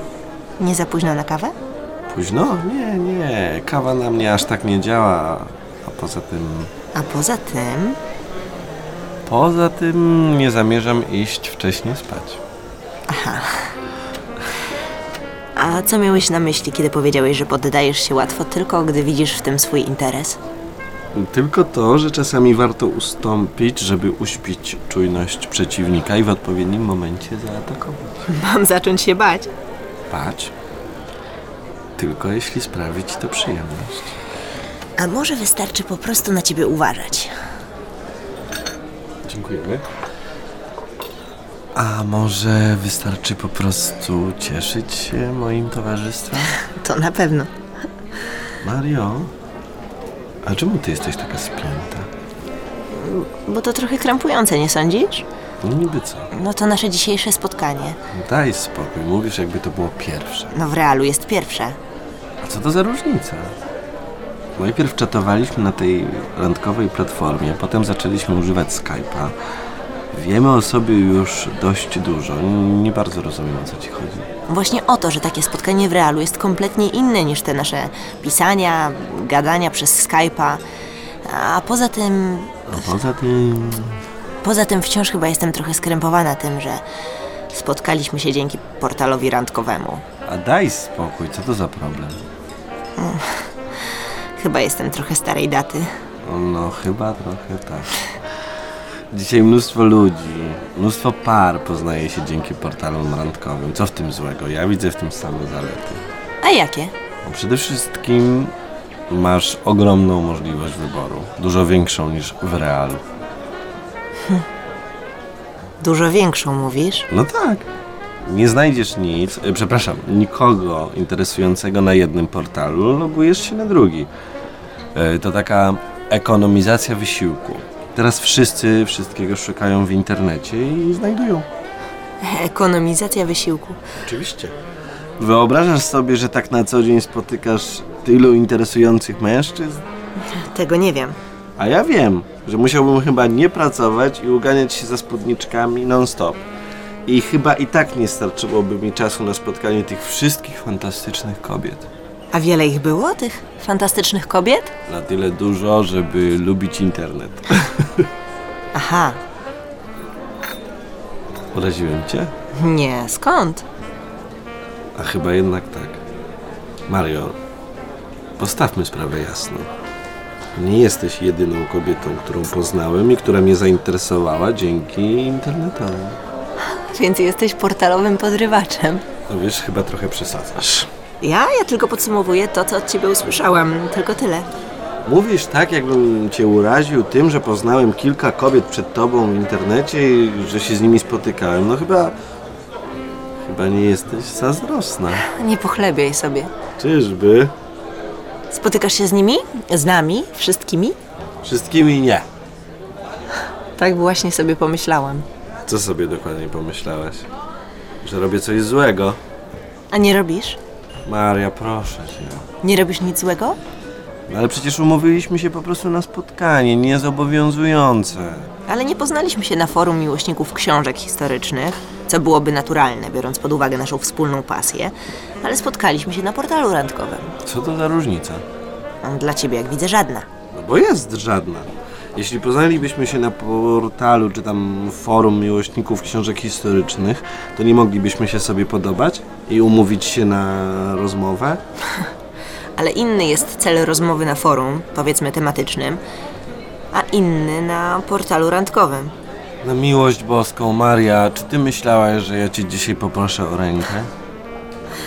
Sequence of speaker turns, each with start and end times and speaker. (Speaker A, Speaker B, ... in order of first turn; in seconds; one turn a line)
Speaker A: 0.6-1.6
Speaker B: 2.1-6.7
Speaker A: 6.9-8.0
Speaker B: 9.3-12.4
Speaker A: 13.1-13.7
Speaker A: 15.6-20.4
Speaker B: 21.1-28.0
Speaker A: 28.2-29.5
Speaker B: 30.1-30.5
Speaker B: 32.0-34.1
Speaker A: 35.0-37.3
Speaker B: 39.2-39.9
Speaker B: 41.8-46.6
Speaker A: 46.6-47.5
Speaker B: 48.6-49.3
Speaker B: 50.4-52.1
Speaker A: 52.9-55.3
Speaker B: 55.6-56.3
Speaker A: 56.3-58.0
Speaker B: 58.1-60.5
Speaker A: 60.5-61.8
Speaker B: 62.4-63.5
Speaker B: 64.6-69.3
Speaker B: 70.1-74.3
Speaker A: 74.5-80.6
Speaker A: 81.2-82.8
Speaker B: 82.7-84.0
Speaker A: 84.4-86.8
Speaker A: 87.5-90.0
Speaker B: 90.3-92.3
Speaker A: 93.0-93.5
Speaker A: 94.4-95.9
Speaker B: 96.2-97.9
Speaker B: 99.1-106.0
Speaker A: 106.4-106.9
Speaker B: 107.2-108.5
Speaker B: 109.1-113.0
Speaker A: 115.8-117.1
Speaker B: 117.1-117.7
Speaker B: 118.2-124.1
Speaker B: 124.9-131.5
Speaker A: 132.2-133.8
Speaker B: 134.0-134.6
Speaker B: 135.2-139.8
Speaker A: 140.3-141.2
Speaker B: 141.6-146.4
Speaker B: 147.1-151.9
Speaker A: 152.3-154.7
Speaker B: 154.9-158.1
Speaker A: 158.7-159.2
Speaker B: 161.5-162.3
Speaker A: 162.6-163.7
Speaker B: 165.0-166.0
Speaker B: 166.9-167.4
Speaker B: 168.4-169.7
Speaker B: 170.6-176.2
Speaker A: 176.7-179.1
Speaker B: 179.3-180.9
Speaker A: 181.2-184.5
Speaker B: 185.1-192.2
Speaker B: 193.4-195.3
Speaker A: 195.2-196.5
Speaker B: 196.8-197.5
Speaker A: 198.5-201.0
Speaker B: 201.4-202.3
Speaker A: 203.8-205.3
Speaker B: 205.7-207.3
Speaker B: 208.0-209.2
Speaker A: 209.9-210.6
Speaker B: 211.1-212.4
Speaker A: 212.6-213.6
Speaker B: 214.3-218.5
Speaker A: 218.7-227.3
Speaker B: 227.4-228.4
Speaker A: 229.0-230.3
Speaker B: 230.5-241.6
Speaker A: 242.8-246.0
Speaker A: 246.9-249.2
Speaker B: 249.6-254.1